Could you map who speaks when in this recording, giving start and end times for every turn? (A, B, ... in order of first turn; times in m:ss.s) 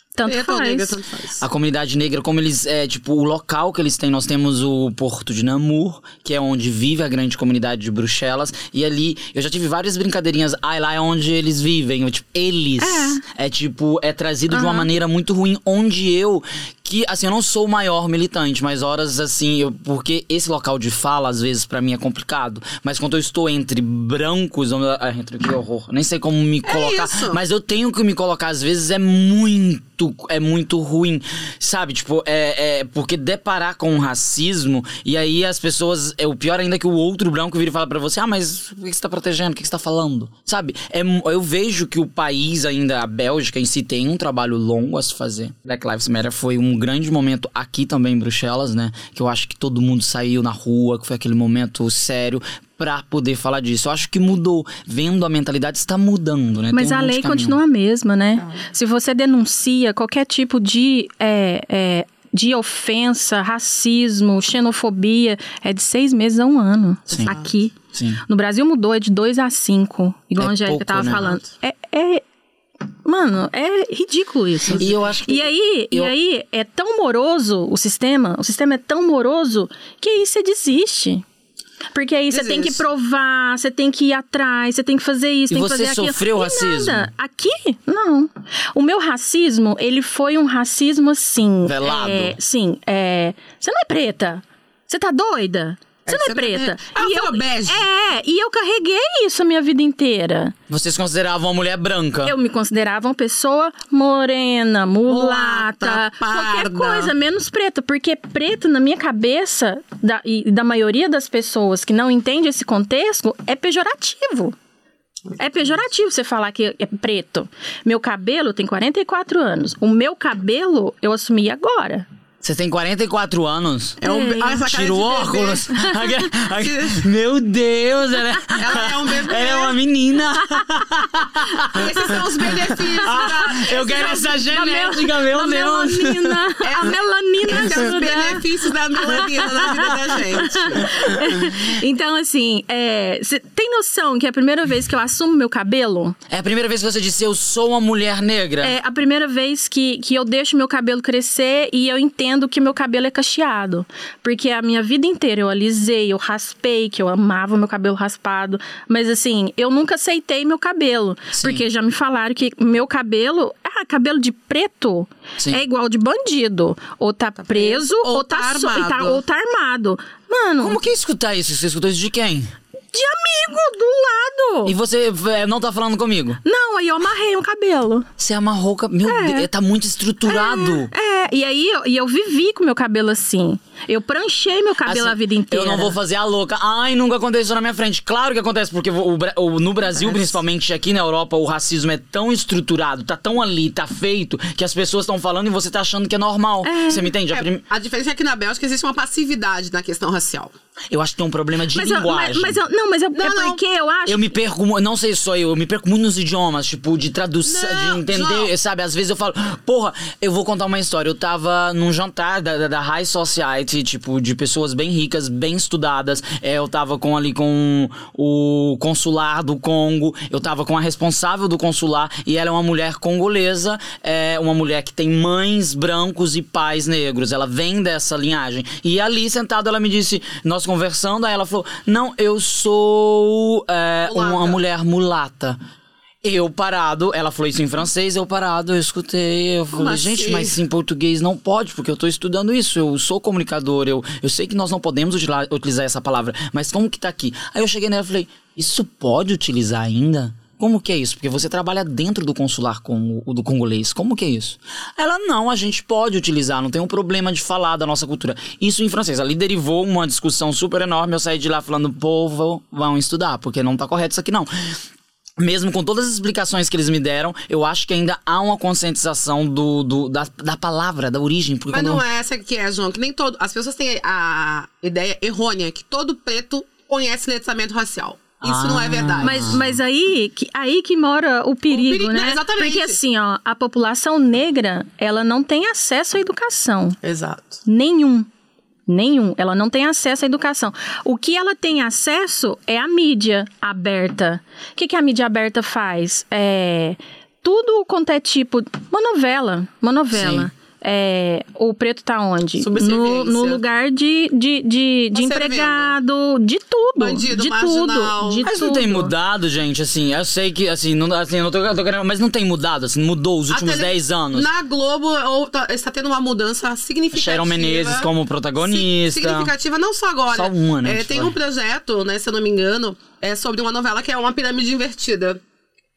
0:00.2-0:01.0 A
0:00.3-0:01.4 B
0:01.4-0:57.6 C
0:12.8-0:13.2 A
0:14.5-0:14.9 A
0:26.6-0:27.4 B
0:56.7-1:12.2 A
1:07.2-1:07.5 B
1:07.9-1:08.2 C
1:10.4-1:11.4 C
1:13.0-1:21.2 A
1:14.8-1:16.1 C
1:21.9-1:40.6 A
1:22.3-1:22.8 B
1:25.5-1:27.1 C
1:31.6-1:32.4 C
1:36.1-1:37.9 B
1:40.7-1:42.4 C
1:42.2-1:54.6 A
1:45.1-1:47.1 B
1:55.4-2:02.1 A
2:02.4-2:04.0 C
2:04.0-2:07.1 B
2:04.0-2:04.6 A
2:04.6-2:16.4 C
2:08.6-2:09.8 B
2:11.7-2:14.3 B
2:13.1-2:26.2 A
2:16.6-2:20.9 B
2:17.5-2:17.9 C
2:20.8-2:21.6 C
2:26.3-2:28.8 C
2:28.6-2:50.8 A
2:41.3-2:41.6 C
2:47.4-2:49.2 B
2:50.6-2:52.5 C
2:52.9-2:54.8 A
2:54.6-2:56.4 C
2:56.4-2:58.1 A
2:58.2-3:00.9 C
2:59.0-2:59.5 A
3:00.2-3:06.0 A
3:04.8-3:17.6 C
3:09.9-3:10.4 B
3:16.6-3:17.1 A
3:17.3-3:20.5 B
3:20.9-3:22.6 C
3:21.7-3:24.3 A
3:23.1-3:23.6 B
3:24.1-3:55.6 C
3:27.4-3:28.5 B
3:54.0-3:54.6 B
3:56.2-4:24.5 C
3:59.7-4:00.6 B
4:25.4-4:32.0 C
4:31.7-4:39.6 B
4:38.4-4:39.6 C
4:39.2-4:47.0 A
4:41.7-4:43.0 B
4:47.0-4:47.6 B
4:47.6-4:48.3 A
4:48.9-5:09.1 A
5:00.1-5:00.5 C
5:02.6-5:03.6 B
5:05.1-5:06.0 B
5:07.0-5:08.5 B
5:08.4-5:14.5 C
5:13.5-5:25.4 B
5:17.1-5:19.5 C
5:20.3-5:21.4 C